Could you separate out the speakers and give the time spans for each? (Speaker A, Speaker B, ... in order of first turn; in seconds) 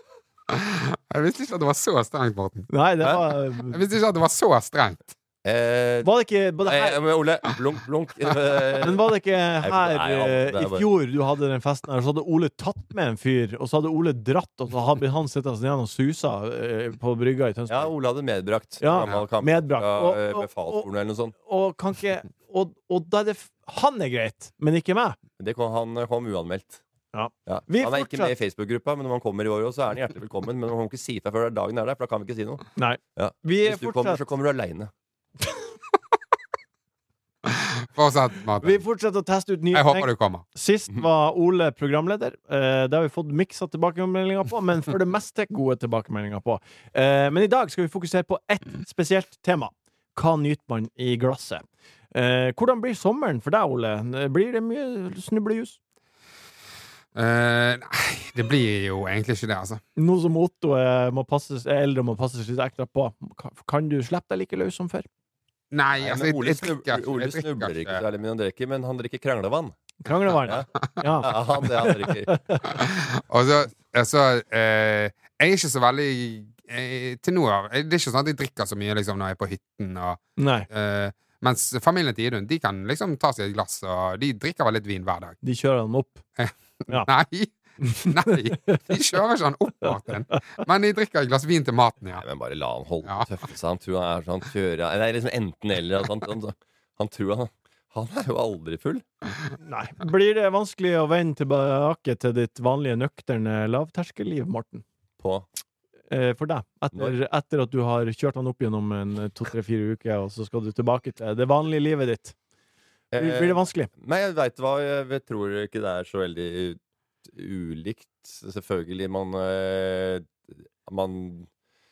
Speaker A: 0.5-5.1, 19.0-19.2, 37.5-38.8, 39.7-40.4, 57.1-59.8, 65.7-68.0, 72.7-85.4, 86.4-92.2
Speaker B: 2.7-3.8, 6.0-7.0, 8.8-17.9, 18.8-20.9, 21.4-25.2, 27.1-28.3, 32.8-34.2, 38.6-55.8, 60.0-65.1, 70.0-72.6, 80.4-80.7, 85.4-86.2, 87.8-88.8, 99.6-104.8, 106.1-112.3, 113.2-113.9
Speaker C: 5.5-6.1, 6.7-9.1, 9.6-10.9, 17.7-21.3, 25.4-26.8, 27.5-34.9, 66.0-69.8, 71.2-72.4, 92.2-99.0, 105.2-105.5, 113.1-121.5